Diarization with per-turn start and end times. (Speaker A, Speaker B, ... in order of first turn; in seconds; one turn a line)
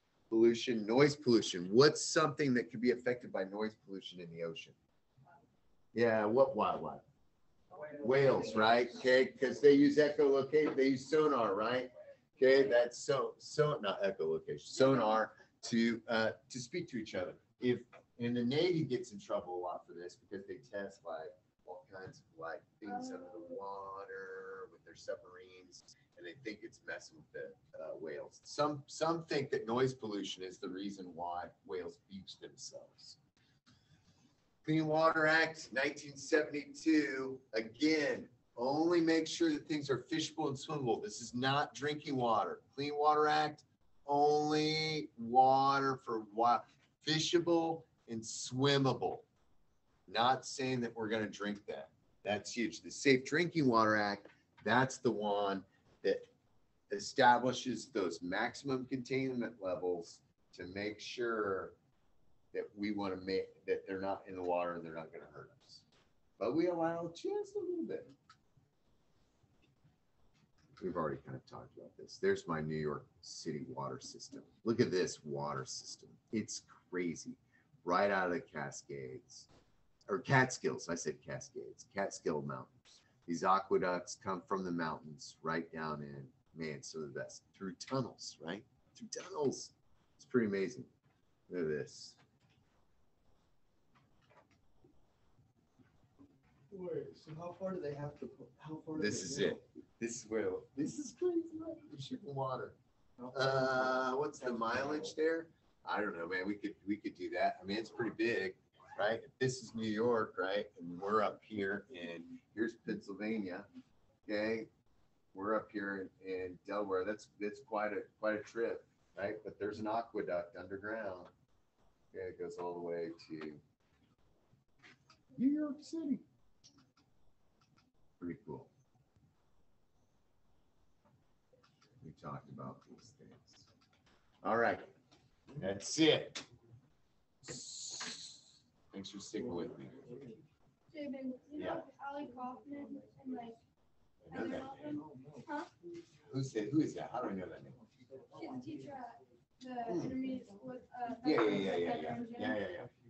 Speaker A: 0.3-4.8
Speaker A: 5.9-7.0
Speaker A: 8.0-33.2
Speaker B: 22.9-23.4
Speaker A: 34.6-49.2
Speaker A: 50.1-56.3
Speaker A: 56.9-61.8
Speaker A: 62.5-65.8
Speaker A: 66.4-68.1
Speaker A: 70.8-79.5
Speaker A: 80.1-90.9
Speaker A: 91.5-92.2
Speaker C: 96.7-99.6
Speaker A: 99.0-102.8
Speaker A: 103.3-113.7
Speaker A: 114.3-114.7
Speaker A: 115.3-121.3
Speaker A: 122.1-123.6
Speaker A: 125.4-126.2
Speaker A: 128.2-128.7
Speaker A: 132.0-133.7
Speaker A: 134.4-134.9
Speaker A: 135.6-136.4
Speaker A: 137.4-140.2
Speaker B: 140.9-143.6
Speaker A: 141.6-141.9
Speaker A: 144.2-145.0
Speaker B: 144.3-145.7
Speaker A: 146.3-147.8
Speaker B: 148.3-152.6
Speaker A: 149.8-150.2
Speaker A: 151.2-152.9